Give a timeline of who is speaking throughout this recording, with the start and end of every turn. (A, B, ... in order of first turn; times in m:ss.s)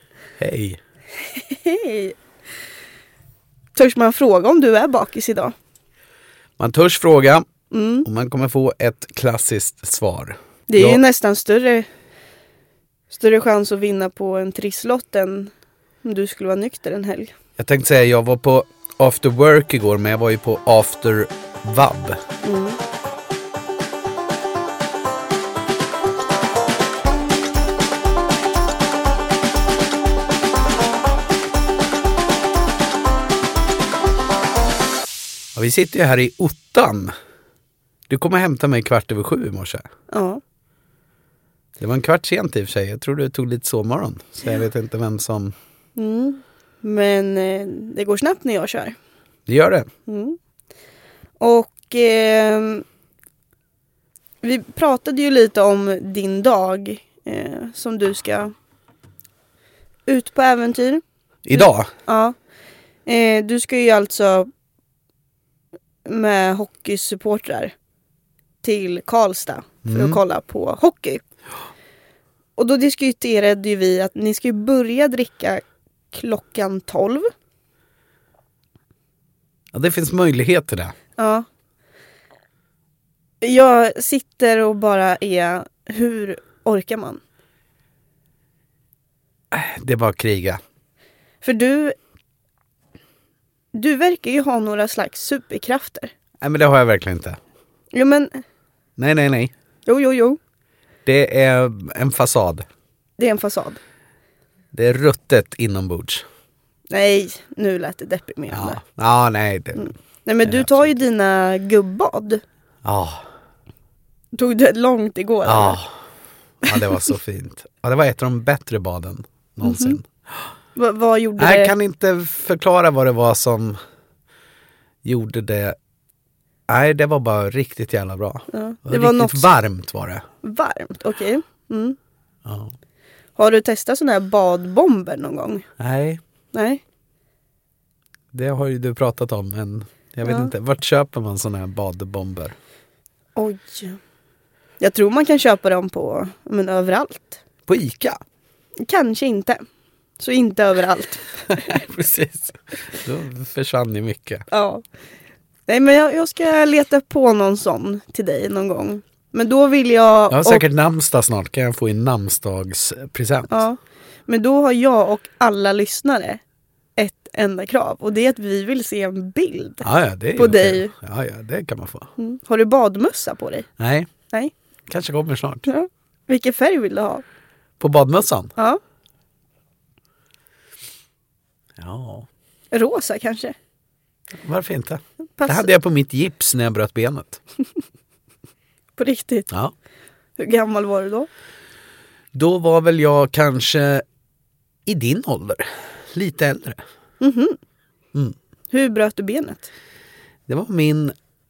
0:00.4-0:00.8 A
0:01.3-0:02.2 B
0:03.8-0:05.5 B
0:06.6-0:07.5 A
0:07.7-0:08.1 B
0:08.0-0:11.0 A
0:10.7-0:11.9 B
0:13.1-0:15.5 B
0:16.0-0:17.4 B
0:17.6-0:22.2 A
0:22.4-0:22.8 B
0:35.6-0:37.1 A
0:38.1-0:39.8 A
0:40.1-0:40.4 B
0:41.8-0:45.5 A
0:46.0-0:49.0 B
0:49.5-0:49.9 A
0:50.1-0:50.4 B
0:51.4-0:52.8 B
0:54.4-0:58.5 B
1:00.1-1:01.0 B
1:01.5-1:01.9 A
1:01.5-1:02.4 B
1:03.1-1:04.5 B
1:06.0-1:07.7 B
1:08.6-1:11.2 B
1:09.8-1:10.2 A
1:12.6-1:17.3 B
1:19.7-1:21.0 A
1:21.2-1:21.5 B
1:23.4-1:27.2 B
1:29.5-1:30.6 A
1:31.4-1:32.0 B
1:33.7-1:36.1 B
1:36.4-1:37.4 A
1:37.9-1:38.4 B
1:39.0-1:39.5 A
1:39.9-1:40.4 B
1:41.1-1:42.7 A
1:43.2-1:43.8 B
1:44.7-1:46.2 A
1:46.9-1:48.8 B
1:48.5-1:49.9 A
1:49.8-1:52.4 B
1:50.4-1:50.9 A
1:52.8-1:53.2 A
1:54.3-1:55.8 B
1:55.4-1:55.9 A
1:56.6-2:00.1 A
1:59.6-2:00.0 B
2:00.8-2:01.7 B
2:01.4-2:03.8 A
2:05.0-2:05.8 A
2:06.7-2:10.2 A
2:08.5-2:09.5 B
2:10.4-2:12.0 B
2:12.4-2:12.7 A
2:13.4-2:15.6 B
2:15.8-2:16.2 A
2:16.5-2:16.8 B
2:18.3-2:22.6 A
2:20.2-2:20.5 B
2:23.4-2:24.0 B
2:24.8-2:27.4 B
2:27.7-2:28.2 A
2:28.8-2:29.6 B
2:30.2-2:31.8 B
2:31.5-2:34.5 A
2:34.5-2:34.8 B
2:35.7-2:40.6 B
2:40.3-2:43.6 A
2:43.5-2:46.4 B
2:47.0-2:50.9 B
2:49.8-2:52.1 A
2:52.2-2:53.7 B
2:53.8-2:54.1 A
2:54.9-2:55.7 A
2:55.7-2:57.2 B
2:57.8-2:58.5 A
3:01.8-3:02.3 A
3:02.7-3:03.6 B
3:04.4-3:07.4 A
3:05.4-3:05.7 B
3:09.0-3:09.5 B
3:10.4-3:11.3 B
3:12.3-3:14.0 A
3:14.9-3:16.8 A
3:17.2-3:17.6 B
3:18.7-3:19.7 B
3:20.5-3:21.1 A